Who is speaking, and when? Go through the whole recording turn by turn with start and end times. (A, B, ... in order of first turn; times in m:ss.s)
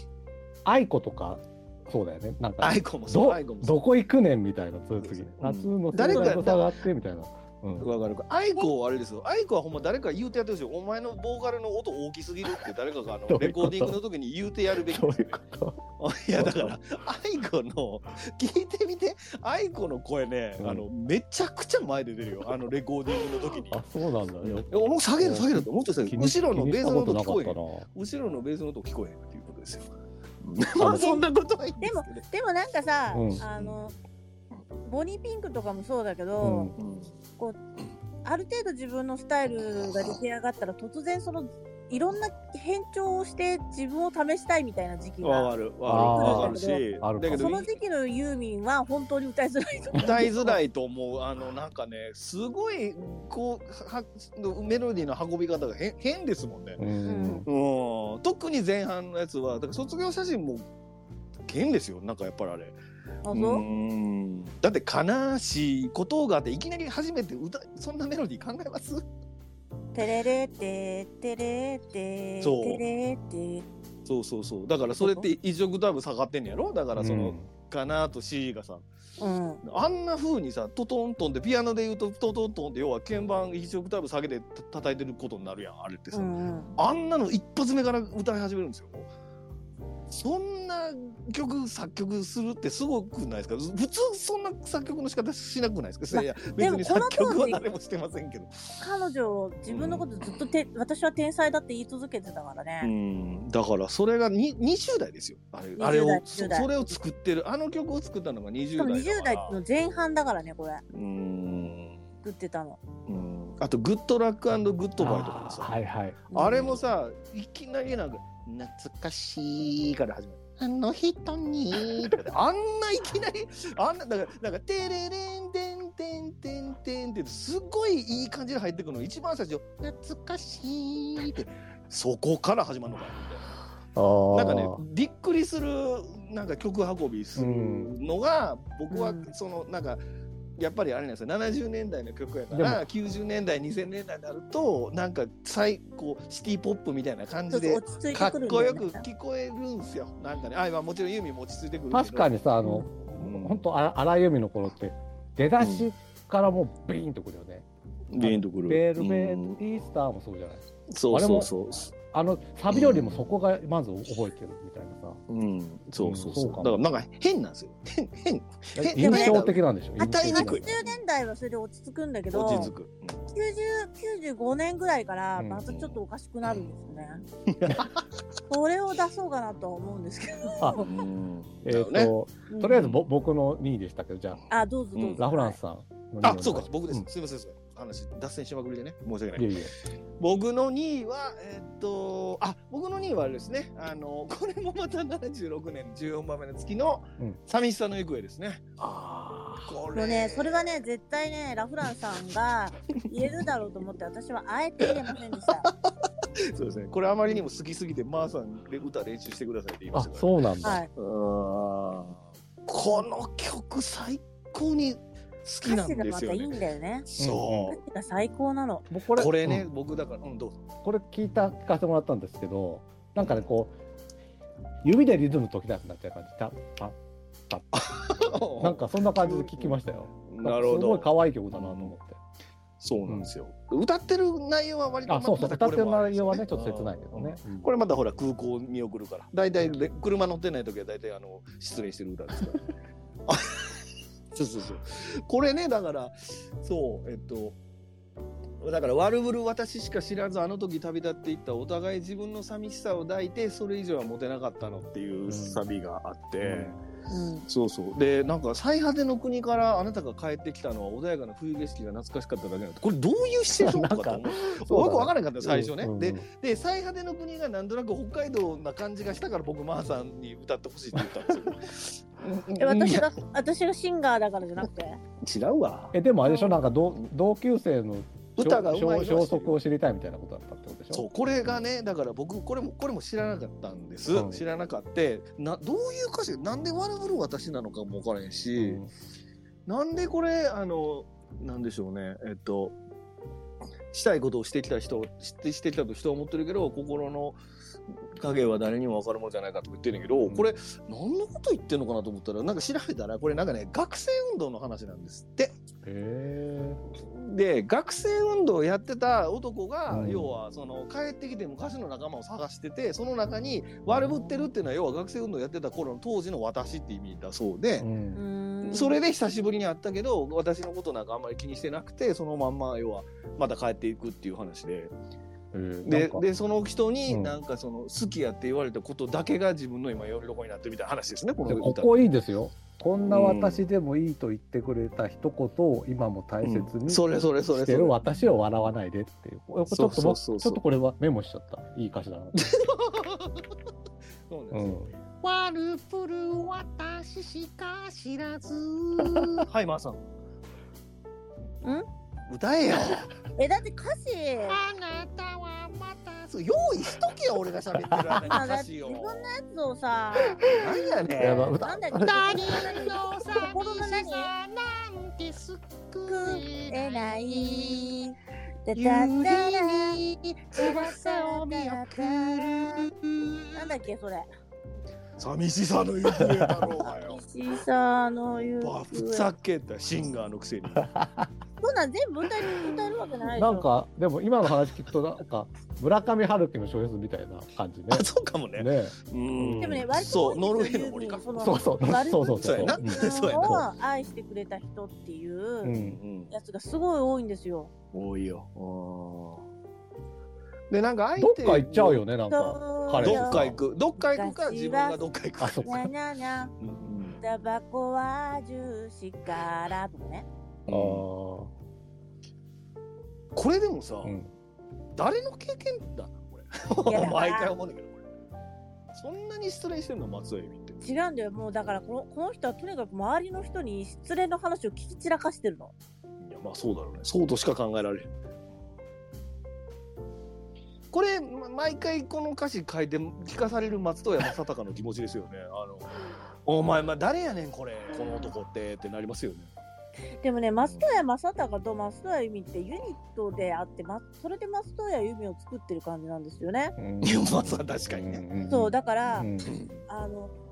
0:00.6-0:07.9 A
0:02.6-0:03.8 B
0:05.0-0:06.8 B
0:07.8-0:15.4 B
0:13.3-0:14.0 A
0:14.8-0:15.8 A
0:16.0-0:23.8 B
0:16.4-0:16.8 A
0:20.6-0:20.8 A
0:23.7-0:27.9 A
0:24.5-0:29.9 B
0:30.4-0:32.2 B
0:30.8-0:31.3 C
0:31.8-0:34.0 C
0:33.1-0:33.4 A
0:33.4-0:33.8 B
0:34.8-0:36.7 C
0:36.4-0:36.8 A
0:36.8-0:37.1 B
0:38.2-0:45.5 C
0:45.2-0:47.7 B
0:45.9-0:47.5 A
0:46.1-0:50.6 C
0:50.0-0:56.8 B
0:56.8-0:57.5 A
0:57.0-0:57.5 C
0:57.5-1:00.6 B
1:01.5-1:02.8 B
1:03.2-1:03.6 C
1:03.3-1:09.0 B
1:09.9-1:13.6 C
1:12.4-1:12.8 B
1:14.1-1:18.8 B
1:15.0-1:15.3 C
1:17.0-1:17.5 A
1:19.2-1:19.6 C
1:19.6-1:29.1 B
1:26.1-1:26.8 C
1:30.1-1:38.8 B
1:36.1-1:37.6 C
1:38.8-1:42.9 C
1:39.7-1:40.5 B
1:42.8-1:49.6 B
1:45.8-1:46.9 C
1:48.8-1:50.8 C
1:50.9-1:52.0 B
1:52.2-1:52.8 C
1:53.1-1:55.7 B
1:55.0-1:56.2 A
1:56.3-1:56.8 C
1:56.3-2:00.6 B
1:59.0-1:59.6 D
2:00.6-2:02.2 D
2:02.2-2:09.7 B
2:09.8-2:11.5 D
2:11.9-2:13.6 B
2:14.0-2:14.8 A
2:14.3-2:20.0 B
2:17.4-2:17.9 A
2:18.9-2:19.3 C
2:20.6-2:32.3 B
2:22.5-2:22.8 A
2:27.5-2:29.0 C
2:31.9-2:37.7 A
2:33.0-2:33.6 B
2:35.6-2:35.9 B
2:38.1-2:39.6 B
2:38.2-2:41.5 A
2:40.9-2:41.9 B
2:42.1-2:45.2 A
2:42.7-2:43.2 B
2:45.3-2:51.0 B
2:46.0-2:46.8 A
2:48.8-2:50.8 A
2:49.0-2:49.4 C
2:50.0-2:52.7 C
2:52.3-2:53.2 B
2:53.3-2:57.2 C
2:55.4-2:55.7 A
2:55.7-2:56.0 B
2:57.5-2:58.0 B
2:58.5-3:00.9 C
3:00.8-3:02.1 B
3:01.6-3:04.4 A
3:02.5-3:02.8 C
3:02.7-3:03.0 B
3:04.5-3:05.6 C
3:05.2-3:07.1 A
3:06.2-3:09.6 B
3:09.4-3:09.7 A
3:10.2-3:18.8 B
3:18.8-3:19.8 A
3:19.6-3:20.8 B
3:19.9-3:25.7 C
3:26.4-3:36.6 B
3:29.9-3:30.8 A
3:30.6-3:30.9 C
3:35.6-3:37.1 C
3:37.1-3:37.8 B
3:37.2-3:37.8 A
3:37.7-3:38.9 C
3:38.9-3:39.7 A
3:39.2-3:40.6 B
3:40.8-3:43.7 A
3:43.2-3:43.4 B
3:44.8-3:47.0 A
3:47.5-3:47.8 A
3:47.7-3:51.9 B
3:48.6-3:52.2 A
3:52.8-4:02.7 B
3:55.1-3:57.7 A
4:03.3-4:03.8 B
4:04.3-4:07.6 B
4:08.6-4:16.8 B
4:15.3-4:15.6 A
4:16.4-4:16.8 A
4:17.1-4:17.5 C
4:17.5-4:33.1 B
4:23.6-4:26.2 A
4:32.6-4:35.0 C
4:35.2-4:36.0 B
4:35.9-4:41.0 A
4:36.2-4:36.6 C
4:38.4-4:39.6 B
4:40.9-4:48.8 B
4:44.1-4:44.4 A
4:48.6-4:48.9 A
4:49.7-4:52.8 B
4:53.9-4:57.4 B
4:58.2-5:05.6 B
5:00.2-5:00.5 A
5:05.8-5:06.8 A
5:07.0-5:17.9 B
5:09.9-5:10.3 A
5:13.9-5:14.5 A
5:17.8-5:18.2 A
5:18.2-5:19.0 C
5:18.6-5:24.9 B
5:25.5-5:26.2 A
5:25.8-5:31.9 B
5:27.1-5:27.4 A
5:31.5-5:42.4 A
5:33.1-5:33.6 B
5:36.4-5:38.3 B
5:39.7-5:40.6 B
5:42.4-5:43.4 B
5:44.3-5:44.8 B
5:44.5-5:44.9 A
5:45.2-5:49.5 D
5:49.0-5:49.5 A
5:49.5-5:50.0 B
5:52.3-5:53.1 B
5:53.4-5:54.6 C
5:54.5-5:56.3 D
5:56.3-5:59.3 B
5:57.9-5:58.2 A
5:58.2-6:00.6 C
6:00.4-6:01.5 B
6:01.2-6:02.1 A
6:01.2-6:04.3 C
6:02.0-6:08.0 D
6:06.1-6:08.2 C
6:08.7-6:10.0 C
6:08.7-6:13.8 D
6:10.6-6:12.9 C
6:13.6-6:14.3 C
6:15.2-6:17.2 B
6:16.2-6:16.7 A
6:16.8-6:19.3 C
6:18.6-6:21.0 B
6:20.8-6:21.3 A
6:21.6-6:23.7 C
6:23.4-6:28.1 A
6:27.9-6:33.6 B
6:28.6-6:29.8 A
6:29.6-6:35.7 C
6:31.4-6:33.7 A
6:35.6-6:36.0 A
6:35.7-6:36.3 B
6:36.3-6:37.7 C
6:37.9-6:39.4 B
6:40.7-6:42.0 B
6:41.2-6:43.6 A
6:42.3-6:45.0 C
6:43.0-6:45.9 B
6:45.4-6:45.9 A
6:45.6-6:46.5 C
6:46.6-6:47.2 B
6:47.2-6:50.3 C
6:50.7-6:51.1 B
6:50.7-6:51.5 A
6:53.4-6:54.2 B
6:54.0-6:54.3 A
6:55.0-6:58.0 B
6:56.9-6:57.5 C
6:58.9-7:00.8 B
7:00.8-7:05.7 C
7:06.2-7:08.1 B
7:10.9-7:15.9 B
7:16.5-7:19.5 B
7:20.2-7:26.8 C
7:20.6-7:21.0 B
7:26.8-7:29.5 A
7:27.0-7:28.3 B
7:28.5-7:29.3 C
7:29.5-7:29.8 B
7:29.9-7:30.3 C